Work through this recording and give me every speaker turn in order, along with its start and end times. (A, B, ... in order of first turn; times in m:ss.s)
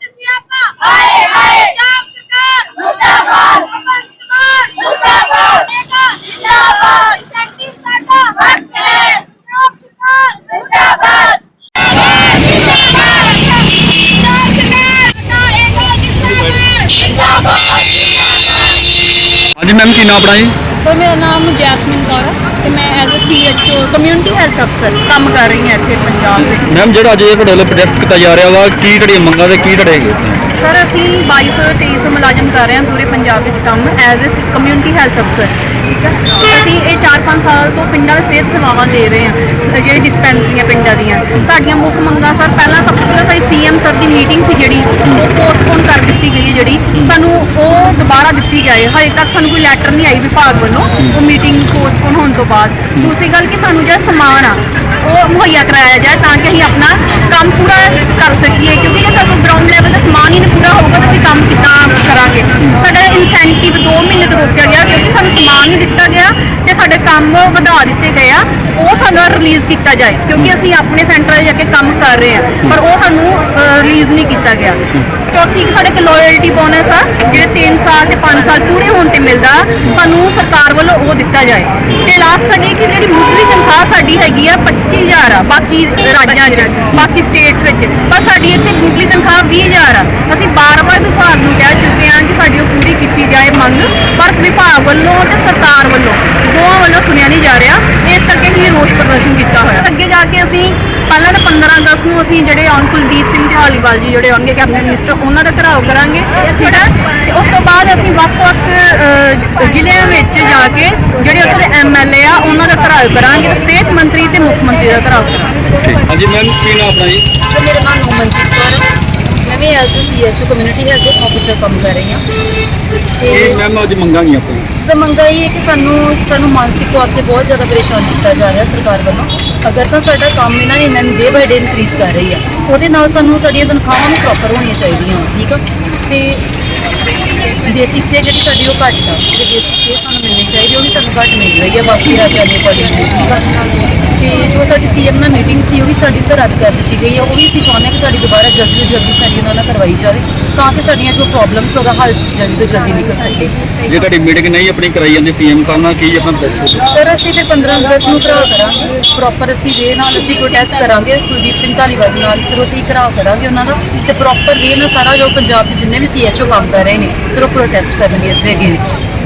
0:00.6-0:02.0 A
0:02.6-0:03.1 A
0:04.6-0:05.1 A
0:06.2-0:09.1 A
0:15.1-0:16.1 A
0:16.3-0:16.6 B
0:19.6-0:20.6 B
0:20.8-0:26.7 A
0:26.5-0:30.4 B
0:30.6-1:55.5 A
1:55.8-1:57.2 B
1:57.5-1:58.9 C
1:59.4-2:02.2 C
2:03.2-2:03.6 C
2:03.3-2:04.7 B
2:04.8-2:16.4 C
2:17.6-2:23.5 C
2:24.2-2:33.7 C
2:33.8-2:36.9 B
2:36.8-2:49.0 C